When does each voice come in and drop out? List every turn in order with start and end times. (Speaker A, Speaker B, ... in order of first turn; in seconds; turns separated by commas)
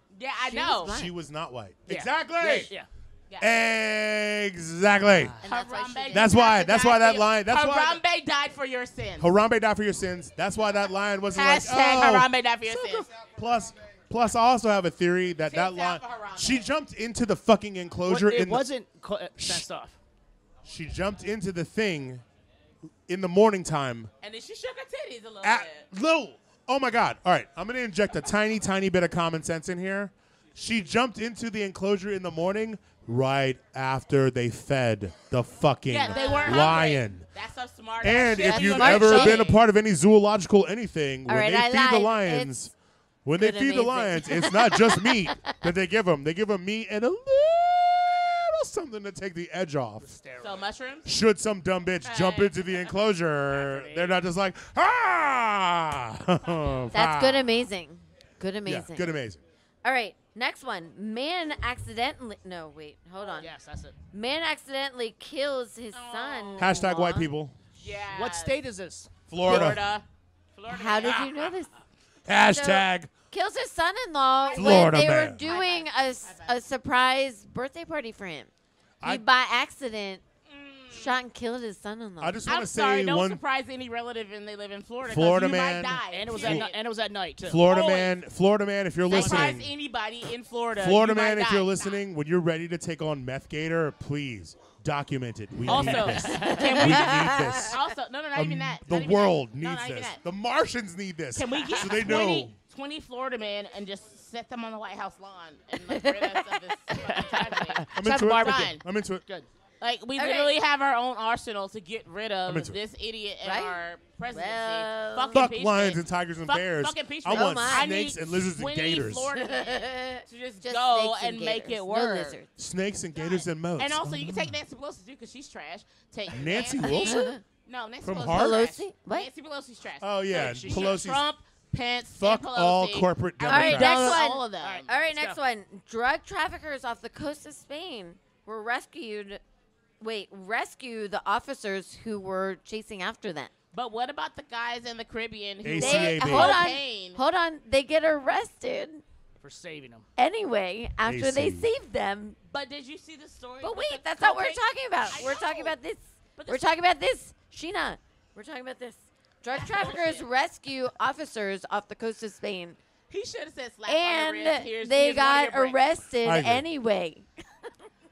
Speaker A: 0.1-1.0, Speaker B: 0.5-1.1, Speaker C: 0.8-2.7, Speaker D: 1.9-2.9, Speaker C: 3.4-5.4, Speaker D: 5.2-5.5, Speaker B: 5.4-6.3, Speaker A: 5.4-9.3, Speaker C: 6.1-8.0, Speaker C: 9.2-18.7, Speaker A: 11.3-13.1, Speaker A: 15.5-16.7, Speaker D: 18.1-20.0, Speaker C: 19.4-19.7, Speaker C: 20.6-22.2, Speaker C: 23.1-24.1, Speaker A: 24.2-25.9, Speaker C: 25.4-37.3, Speaker A: 35.9-39.6, Speaker B: 36.1-36.9, Speaker C: 38.0-42.7, Speaker B: 38.4-39.5, Speaker B: 41.3-42.7, Speaker C: 43.2-50.1, Speaker B: 43.4-45.5, Speaker D: 50.0-50.7, Speaker A: 50.4-51.1, Speaker C: 51.0-57.5, Speaker A: 52.0-52.8, Speaker D: 53.5-54.2, Speaker B: 56.9-59.1, Speaker C: 58.7-59.4, Speaker B: 59.8-63.5, Speaker D: 63.4-64.0, Speaker B: 64.1-67.3, Speaker A: 65.9-66.9, Speaker C: 66.6-67.6, Speaker A: 67.8-68.6, Speaker D: 67.8-69.1, Speaker C: 69.3-70.0, Speaker A: 69.4-71.5, Speaker B: 70.7-71.7, Speaker C: 72.3-73.1, Speaker B: 72.5-78.5, Speaker A: 74.4-76.6, Speaker C: 74.5-75.5, Speaker B: 79.0-80.2, Speaker A: 80.5-81.2, Speaker B: 80.9-82.4, Speaker C: 82.2-83.4, Speaker A: 82.5-86.7, Speaker C: 85.0-86.7, Speaker D: 86.1-87.6, Speaker C: 87.4-89.7, Speaker A: 87.6-88.2, Speaker A: 89.1-91.9, Speaker D: 89.1-89.6, Speaker C: 90.8-97.8, Speaker A: 95.7-100.2, Speaker D: 95.7-96.9, Speaker B: 96.6-97.8, Speaker C: 98.3-102.5, Speaker A: 101.3-108.8, Speaker B: 105.8-107.4, Speaker D: 107.1-108.6, Speaker C: 107.9-109.2, Speaker A: 109.8-122.4, Speaker B: 110.2-110.5, Speaker C: 112.5-112.8, Speaker B: 113.4-115.5, Speaker C: 115.3-119.3, Speaker B: 117.3-117.9, Speaker B: 119.4-122.5, Speaker C: 122.6-124.6, Speaker A: 123.2-134.9, Speaker C: 126.3-127.3, Speaker B: 126.8-127.4, Speaker C: 128.0-128.6, Speaker B: 128.2-129.3, Speaker C: 130.0-131.3, Speaker D: 130.3-130.9, Speaker C: 132.2-134.2, Speaker B: 133.4-139.4, Speaker D: 134.6-135.4, Speaker B: 140.0-143.5, Speaker A: 143.7-147.2, Speaker C: 145.6-146.7, Speaker B: 145.8-149.0, Speaker D: 149.4-150.1, Speaker B: 150.2-152.4, Speaker C: 151.1-151.7, Speaker A: 152.5-155.8, Speaker B: 153.6-162.8, Speaker A: 156.4-156.8, Speaker A: 159.5-160.2, Speaker A: 163.1-165.8, Speaker B: 163.9-167.7, Speaker C: 166.2-166.7